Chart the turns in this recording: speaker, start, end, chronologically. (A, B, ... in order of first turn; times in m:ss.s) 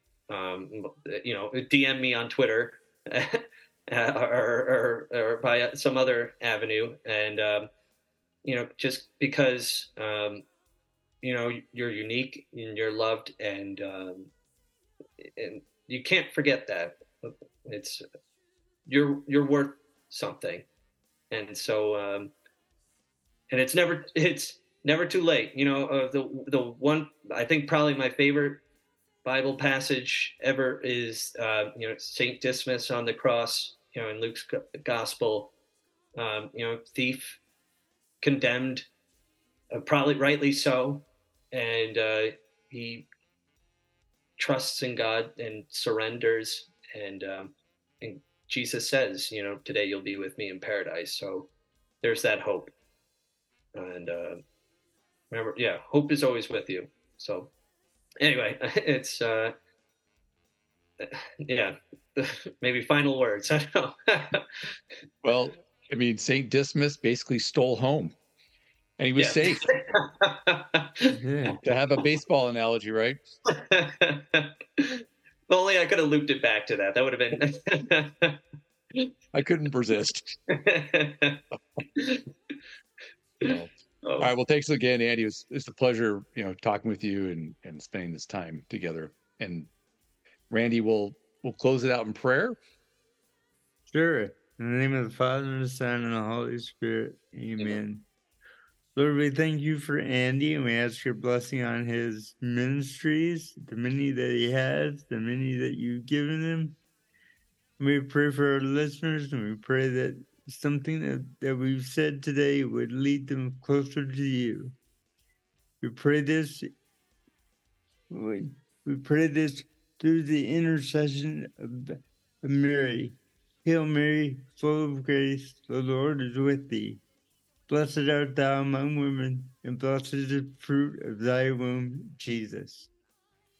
0:00.3-0:07.7 A
0:08.4-0:10.4 A
0:11.2-0:14.3 A
0:15.2-0:18.0 A
0:18.8-0:20.7 A
0:21.3-0:22.3 A
0:23.5-0:28.6 A
0:29.2-0:35.5 A
0:36.1-0:37.4 A
0:38.2-0:38.9 A
0:39.7-0:43.1 A
0:44.4-0:51.5 A
0:52.0-0:52.7 A
0:53.7-0:54.4 A
0:55.3-0:57.5 A
0:58.2-0:59.5 A
1:01.0-1:04.7 A
1:05.2-1:08.1 B
1:09.0-1:09.7 B
1:09.2-1:11.1 A
1:11.1-1:11.6 C
1:11.6-1:13.2 B
1:13.5-1:18.4 A
1:19.3-1:20.4 B
1:20.5-1:21.4 A
1:22.0-1:22.2 A
1:23.4-1:29.7 B
1:23.4-1:24.3 A
1:30.5-1:32.6 B
1:33.9-1:38.0 C
1:38.9-1:46.8 C
1:47.8-1:54.7 C
1:55.8-1:56.7 C
1:58.1-2:07.0 C
2:07.7-2:12.9 C